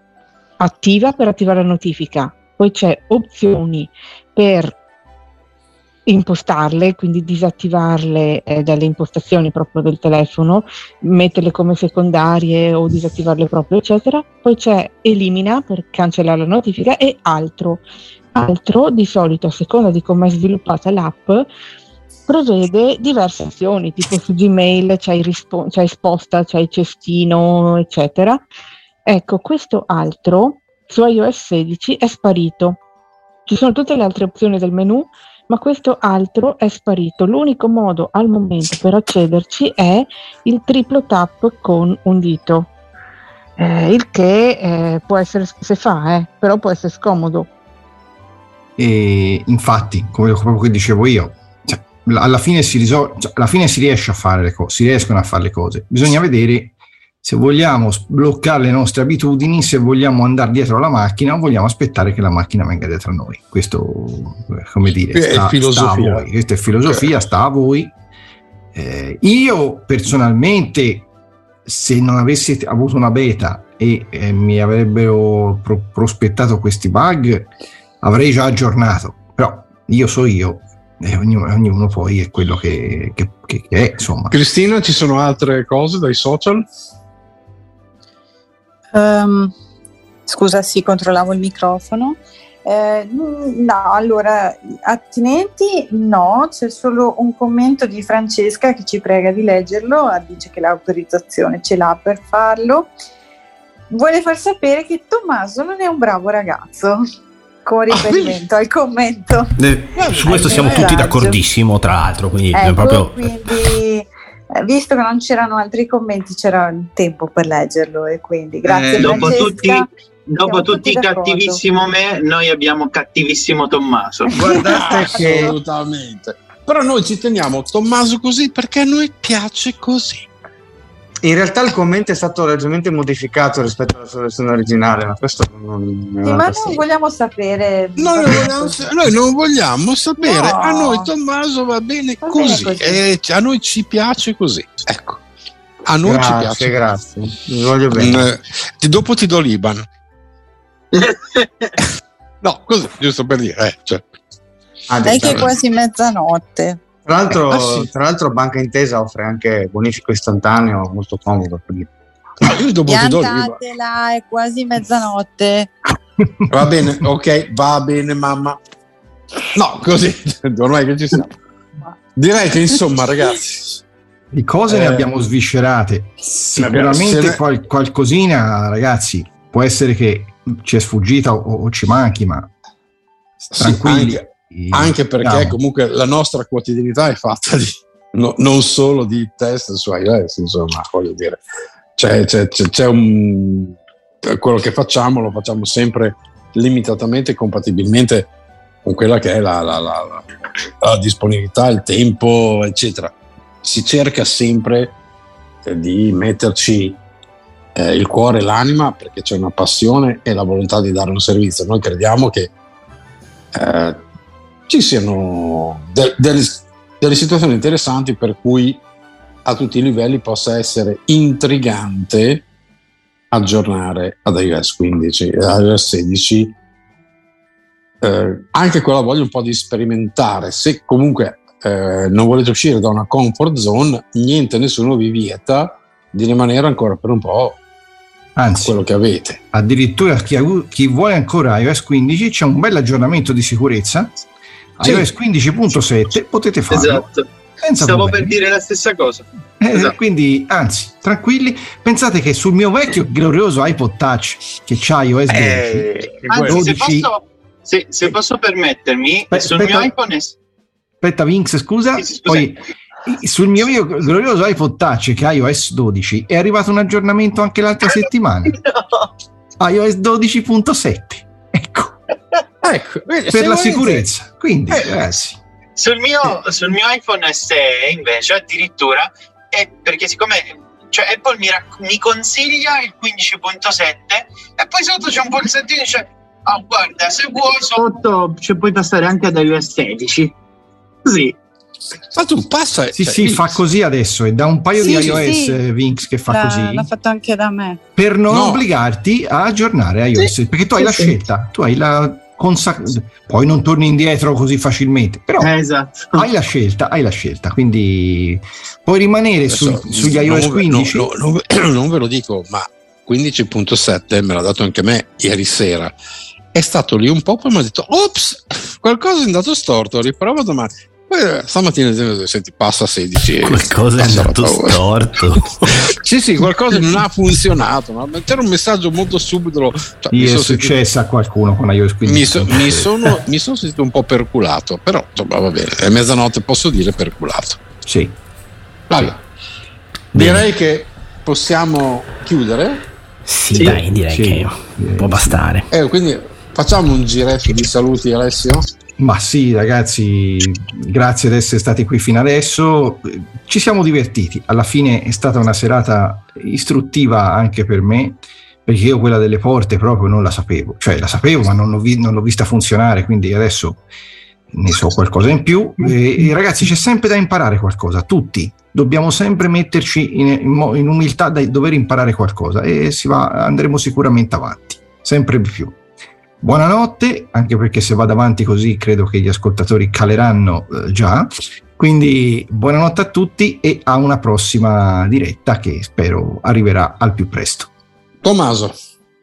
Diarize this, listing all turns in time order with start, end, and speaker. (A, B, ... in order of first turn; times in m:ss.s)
0:00.6-0:04.8 A
0:06.1-0:17.8 A
0:18.3-0:21.5 A
0:22.3-0:28.4 A
0:29.0-0:32.8 A
0:33.4-0:42.7 A
0:43.6-0:47.5 A
0:48.8-1:07.9 B
1:05.1-1:06.3 C
1:08.7-1:11.1 B
1:11.6-1:17.5 B
1:18.0-1:24.3 B
1:24.3-1:26.7 C
1:28.9-1:29.5 D
1:30.3-1:42.9 D
1:43.9-1:47.0 D
1:47.6-1:49.5 D
1:47.9-1:48.4 C
1:49.6-1:53.3 E
1:49.9-1:51.1 C
1:50.1-1:51.4 D
1:52.5-1:59.9 D
1:58.6-1:59.6 F
1:58.9-2:04.5 G
2:00.4-2:01.6 D
2:04.3-2:05.4 D
2:04.3-2:05.2 B
2:04.4-2:05.5 F
2:04.6-2:10.3 C
2:11.2-2:16.8 F
2:16.2-2:18.9 D
2:18.0-2:25.2 C
2:20.2-2:21.1 D
2:22.2-2:23.0 D
2:25.8-2:26.7 C
2:26.0-2:28.2 F
2:27.9-2:29.8 C
2:31.0-2:31.7 G
2:32.4-2:34.1 C
2:34.9-2:35.5 F
2:35.0-2:36.8 D
2:35.1-2:35.5 C
2:37.0-2:41.9 F
2:37.4-2:37.9 C
2:42.4-2:43.6 C
2:42.8-2:45.7 D
2:46.5-2:48.6 C
2:49.5-2:51.3 C
2:52.1-2:53.8 C
2:54.3-3:02.5 B
2:54.7-2:55.1 C
2:56.6-2:57.4 C
3:03.4-3:11.4 C
3:03.6-3:05.6 B
3:12.0-3:18.3 C
3:18.8-3:20.3 C
3:20.8-3:25.0 C
3:25.6-3:27.0 C
3:27.7-3:32.5 C
3:33.5-3:34.0 C
3:34.7-3:38.8 C
3:39.4-3:42.4 C
3:43.3-3:46.6 C
3:48.0-3:57.6 C
3:58.4-3:58.8 B
3:58.6-3:59.4 C
3:59.5-4:04.2 B
4:04.8-4:07.0 B
4:04.8-4:05.1 C
4:06.7-4:10.0 G
4:07.6-4:08.3 B
4:09.6-4:17.1 B
4:16.2-4:20.3 G
4:19.3-4:19.9 B
4:21.0-4:28.6 B
4:22.0-4:22.5 G
4:28.5-4:29.0 G
4:29.6-4:32.0 B
4:32.6-4:34.0 C
4:33.3-4:35.4 B
4:35.8-4:50.4 G
4:51.0-4:51.4 G
4:52.1-4:53.6 C
4:52.9-4:56.9 B
4:54.8-4:55.6 D
4:54.9-4:55.2 C
4:56.3-4:57.8 D
4:58.0-5:05.5 B
4:58.3-4:58.6 C
5:00.2-5:01.2 G
5:05.4-5:06.3 G
5:06.1-5:11.1 B
5:09.5-5:15.9 C
5:16.5-5:24.8 C
5:23.4-5:25.9 E
5:25.6-5:30.8 C
5:30.1-5:33.2 B
5:32.0-5:37.6 C
5:37.8-5:38.2 B
5:38.9-5:39.2 C
5:40.1-5:40.5 E
5:40.1-5:42.8 C
5:43.2-5:45.7 E
5:43.5-5:43.8 G
5:44.1-5:45.4 B
5:45.7-5:48.6 C
5:49.0-6:03.8 B
6:04.5-6:15.8 B
6:16.4-6:27.7 B
6:28.2-6:28.8 C